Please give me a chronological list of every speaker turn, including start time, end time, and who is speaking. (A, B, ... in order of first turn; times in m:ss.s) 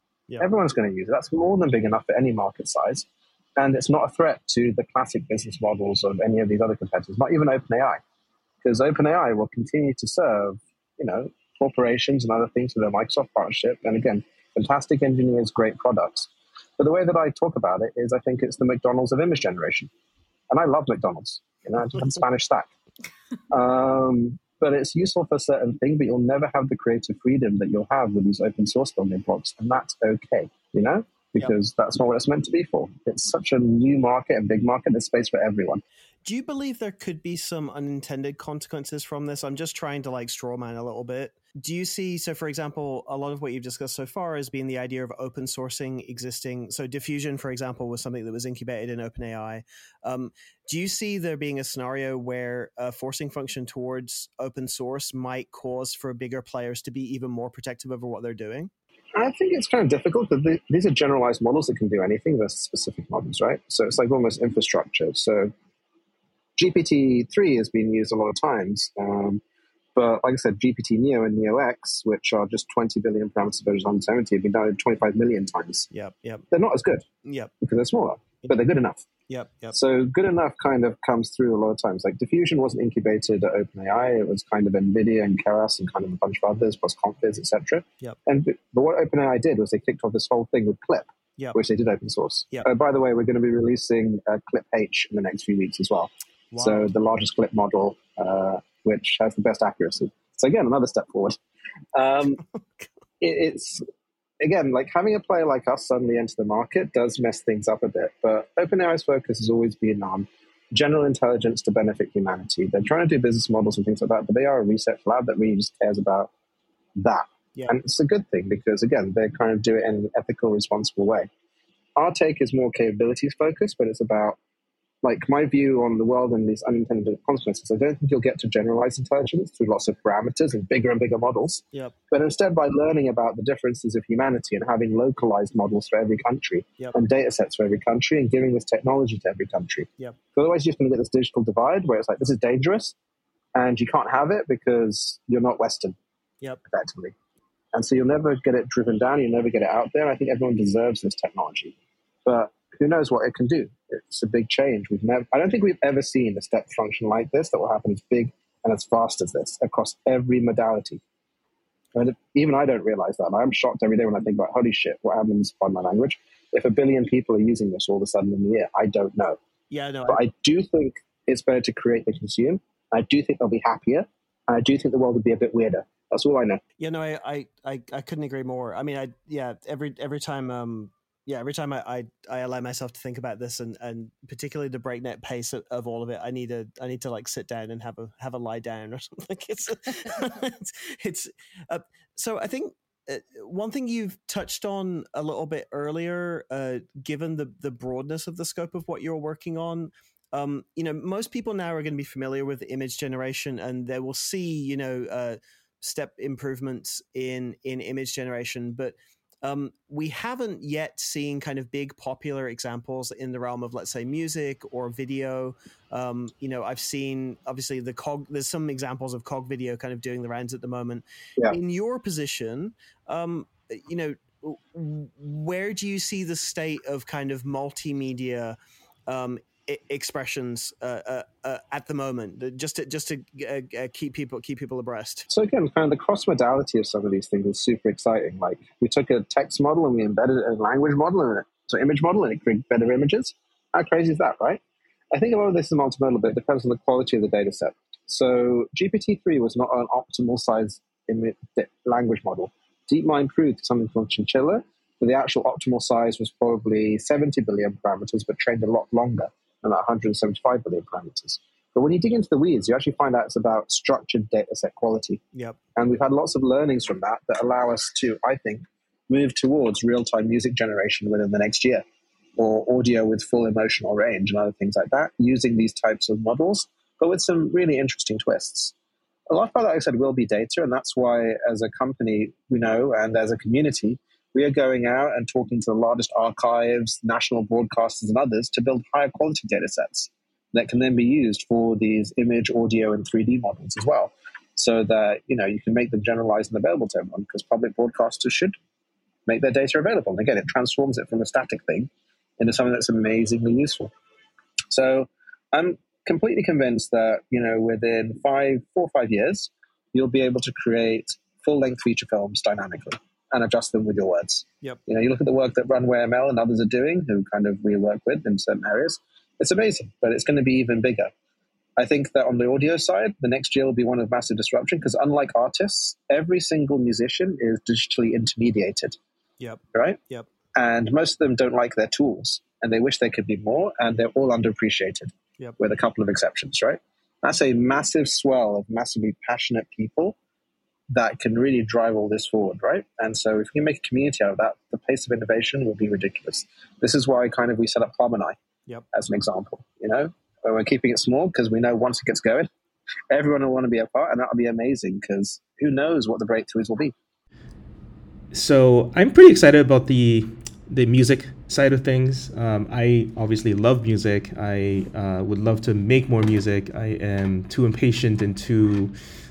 0:00.4-0:08.0 A
0:08.6-0:19.9 A
0:20.5-0:22.7 A
0:23.5-0:35.8 A
0:36.2-0:58.7 B
0:59.1-1:05.5 A
1:06.6-1:09.4 A
1:09.9-1:15.9 A
1:15.9-1:16.4 B
1:16.5-1:17.0 A
1:17.2-1:17.5 B
1:17.6-1:19.0 A
1:19.3-1:19.8 B
1:19.7-1:41.4 A
1:36.5-1:36.9 B
1:41.9-1:42.4 A
1:42.3-1:42.9 B
1:43.2-1:43.8 A
1:44.4-1:56.3 A
1:57.0-2:01.3 A
2:02.0-2:04.4 A
2:05.0-2:22.9 A
2:23.5-2:26.0 A
2:26.7-2:27.1 A
2:27.7-2:41.0 A
2:41.9-2:49.4 A
2:49.7-2:50.2 B
2:50.1-2:56.6 A
2:56.8-3:48.6 B
3:49.1-3:55.3 B
3:55.3-4:04.6 A
4:05.1-4:25.2 A
4:25.8-4:31.8 A
4:32.4-4:38.7 A
4:39.3-4:58.5 A
4:59.2-5:03.9 A
5:04.7-5:21.1 A
5:21.8-5:29.0 A
5:29.4-5:30.3 B
5:29.7-5:30.0 A
5:30.5-5:40.2 A
5:40.9-5:48.4 A
5:48.9-5:52.5 A
5:53.1-5:56.9 A
5:58.3-6:08.9 C